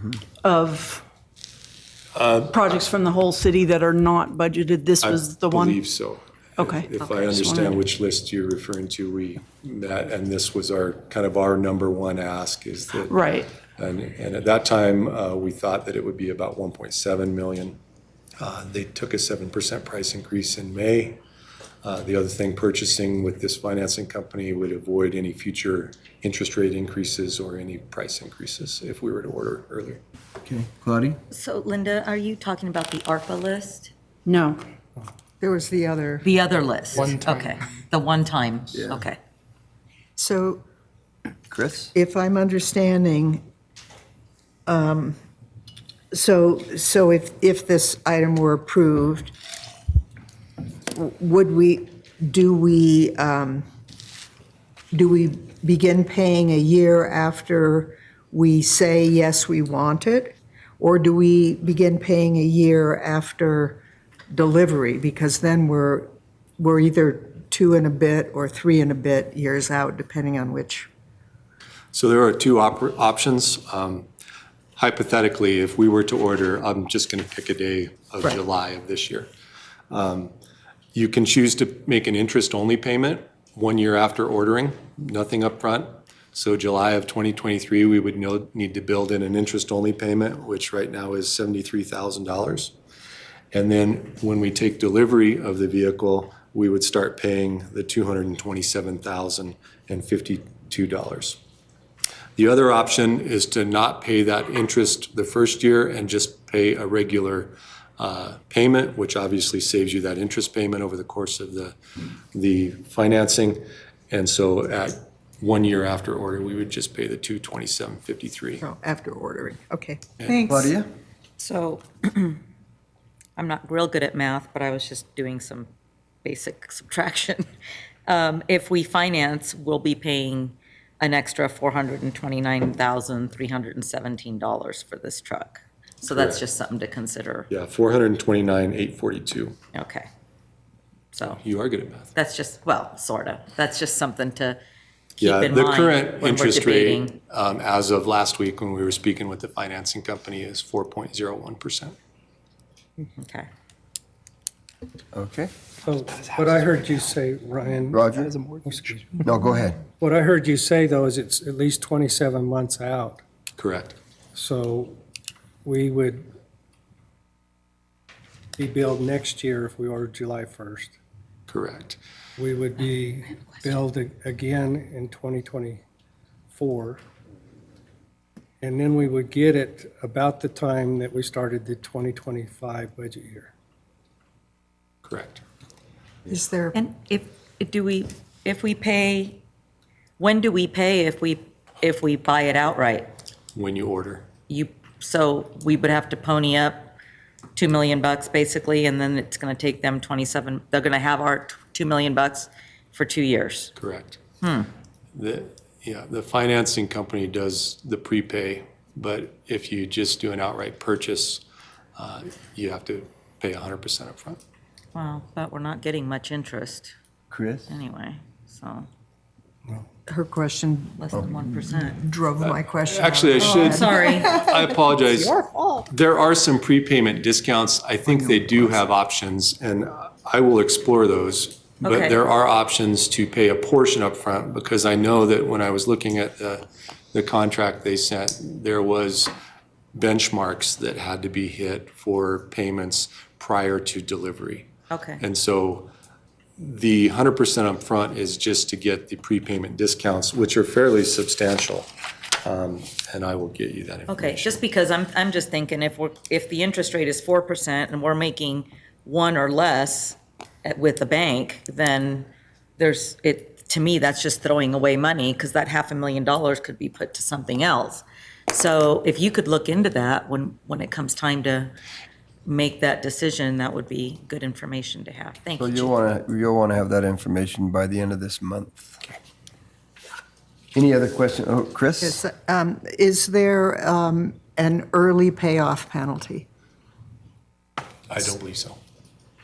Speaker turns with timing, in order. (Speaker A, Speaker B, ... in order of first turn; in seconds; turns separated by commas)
Speaker A: 0.4-1.0, Speaker B: 2.1-2.8, Speaker A: 2.5-5.8, Speaker B: 5.0-17.8, Speaker A: 6.6-7.7, Speaker A: 13.1-13.5, Speaker B: 18.4-21.2, Speaker B: 21.8-30.0, Speaker C: 30.4-31.2, Speaker D: 31.3-33.9, Speaker A: 34.2-34.6, Speaker E: 35.4-36.3, Speaker D: 36.2-39.2, Speaker C: 38.7-39.0, Speaker E: 40.2-40.6, Speaker C: 41.5-41.9, Speaker E: 41.9-43.4, Speaker E: 44.7-45.2, Speaker E: 46.1-49.3, Speaker E: 50.9-53.6, Speaker E: 54.9-70.9, Speaker B: 71.9-74.1, Speaker B: 74.8-79.3, Speaker B: 79.9-80.3, Speaker B: 80.9-92.7, Speaker B: 93.5-101.4, Speaker B: 102.4-111.8, Speaker B: 112.3-118.6, Speaker E: 118.6-120.7, Speaker C: 120.5-120.9, Speaker D: 121.4-122.4, Speaker D: 123.3-125.7, Speaker D: 126.2-127.5, Speaker D: 128.1-137.5, Speaker B: 136.1-136.4, Speaker B: 137.5-139.6, Speaker D: 139.7-140.1, Speaker D: 141.1-141.4, Speaker B: 141.4-142.1, Speaker D: 142.2-144.6, Speaker B: 145.2-151.9, Speaker D: 145.2-147.2, Speaker D: 153.0-153.5, Speaker C: 155.1-155.5, Speaker F: 155.8-159.2, Speaker C: 157.9-158.3, Speaker C: 159.2-159.8, Speaker F: 160.0-163.2, Speaker B: 163.6-164.0, Speaker F: 164.3-165.0, Speaker F: 165.7-166.2, Speaker F: 168.6-170.9, Speaker B: 171.5-172.0, Speaker F: 172.4-175.8, Speaker F: 176.5-177.0, Speaker F: 178.6-183.5, Speaker B: 185.0-185.4, Speaker E: 186.3-186.8, Speaker D: 186.7-189.4, Speaker D: 190.2-193.1, Speaker B: 193.5-194.2, Speaker D: 194.5-196.9, Speaker D: 197.6-203.7, Speaker B: 203.8-204.2, Speaker D: 204.4-204.7, Speaker B: 205.1-211.4, Speaker B: 211.9-214.4, Speaker D: 214.9-216.9, Speaker C: 217.3-217.7, Speaker D: 217.7-218.9, Speaker E: 220.1-221.2, Speaker D: 221.0-222.0, Speaker E: 221.7-225.8, Speaker B: 222.4-225.3, Speaker D: 223.4-224.4, Speaker B: 225.9-239.3, Speaker D: 231.8-232.2, Speaker B: 239.9-244.7, Speaker D: 244.9-245.2, Speaker B: 245.2-245.9, Speaker B: 246.6-251.9, Speaker B: 252.4-254.6, Speaker D: 254.1-271.7, Speaker D: 272.4-276.0, Speaker C: 275.6-279.0, Speaker C: 280.7-282.2, Speaker E: 282.0-286.5, Speaker B: 288.1-288.8